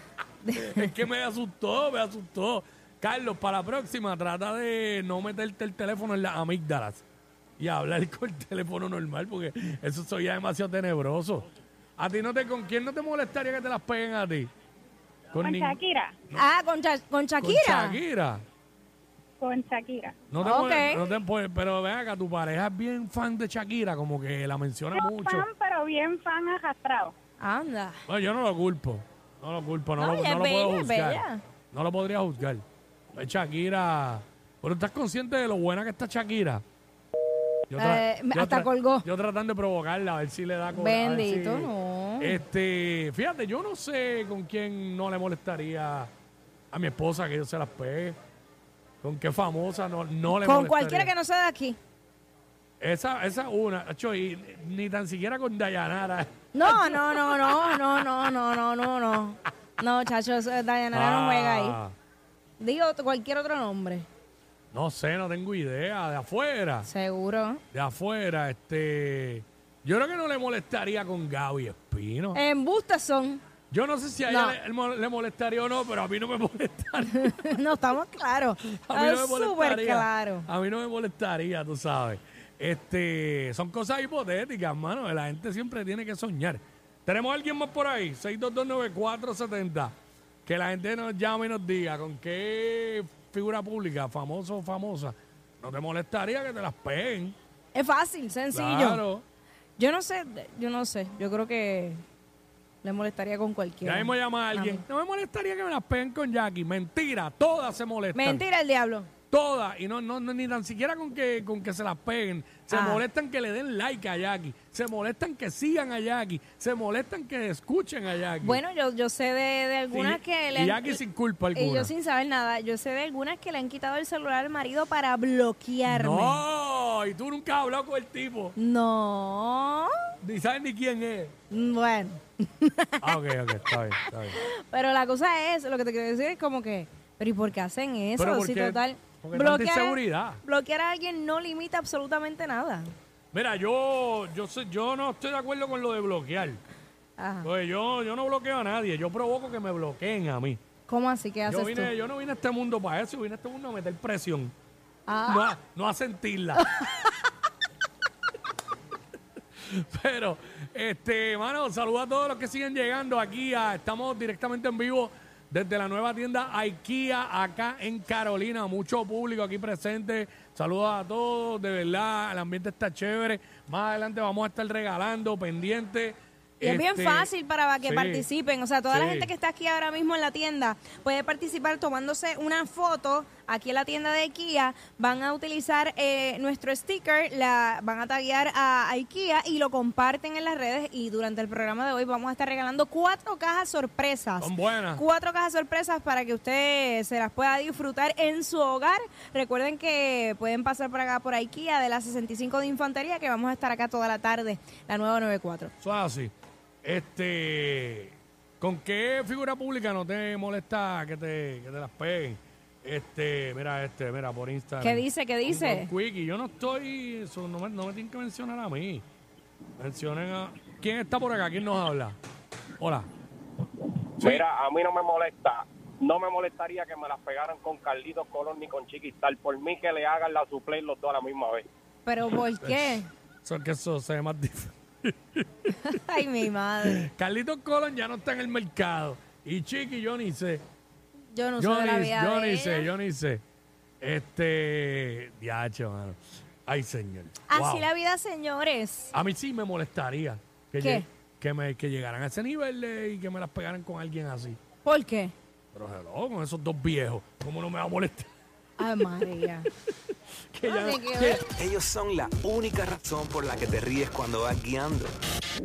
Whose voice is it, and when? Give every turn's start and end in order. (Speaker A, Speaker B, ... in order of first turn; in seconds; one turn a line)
Speaker A: 0.4-0.9
Speaker B: 0.5-7.0
Speaker B: 7.6-11.5
Speaker B: 12.0-14.5
Speaker B: 15.3-16.4
Speaker C: 15.4-16.1
Speaker A: 16.3-18.0
Speaker B: 17.4-18.4
Speaker C: 19.4-20.2
Speaker B: 20.3-25.5
Speaker A: 20.4-21.0
Speaker C: 24.9-27.1
Speaker A: 27.4-28.0
Speaker B: 28.1-32.6
Speaker A: 30.0-31.4
Speaker B: 33.1-36.6
Speaker B: 37.7-46.1
Speaker A: 37.8-39.0
Speaker A: 40.7-42.4
Speaker B: 46.7-48.2
Speaker B: 49.0-51.1
Speaker A: 50.3-51.8
Speaker B: 52.8-57.8
Speaker A: 56.5-61.8
Speaker B: 60.9-61.9
Speaker A: 62.6-64.1
Speaker B: 64.7-66.9
Speaker A: 66.8-67.6
Speaker B: 67.7-72.4
Speaker A: 72.3-73.4
Speaker B: 73.7-77.6
Speaker A: 74.3-74.6
Speaker A: 77.0-80.5
Speaker B: 78.7-89.9
Speaker B: 90.5-97.3
Speaker A: 97.7-99.0
Speaker B: 98.5-99.2
Speaker A: 99.8-102.0
Speaker A: 102.8-104.8
Speaker B: 103.8-108.4
Speaker A: 108.1-109.1
Speaker B: 109.3-118.6
Speaker A: 112.7-113.0
Speaker A: 118.4-121.0
Speaker B: 119.9-121.9
Speaker A: 121.5-126.4
Speaker B: 125.9-128.5
Speaker A: 128.6-129.9
Speaker B: 130.2-131.3
Speaker A: 131.5-133.1
Speaker B: 133.0-134.4
Speaker A: 134.2-142.9
Speaker B: 138.2-140.4
Speaker B: 143.3-146.6
Speaker A: 147.2-147.5
Speaker B: 147.4-150.6
Speaker A: 150.9-151.9
Speaker B: 151.5-154.5
Speaker A: 155.1-155.5
Speaker B: 155.2-156.6
Speaker A: 156.5-157.2
Speaker B: 159.6-177.3
Speaker A: 176.6-205.7
Speaker B: 177.8-178.2
Speaker B: 178.9-179.3
Speaker B: 194.4-195.0
Speaker B: 205.8-206.3
Speaker B: 206.8-219.0
Speaker A: 214.8-215.9
Speaker B: 219.8-222.2
Speaker B: 222.8-223.1
Speaker B: 224.2-224.4
Speaker D: 224.2-231.7
Speaker A: 232.1-233.1
Speaker B: 232.6-235.9
Speaker A: 235.8-237.1
Speaker B: 236.9-240.6
Speaker A: 241.3-242.9
Speaker B: 241.6-243.4
Speaker B: 244.0-247.8
Speaker A: 247.5-249.1
Speaker B: 249.1-254.6
Speaker A: 250.8-251.0
Speaker A: 254.8-255.3
Speaker B: 255.7-258.3
Speaker A: 258.8-259.6
Speaker B: 260.5-261.4
Speaker A: 260.6-261.4
Speaker E: 261.5-265.1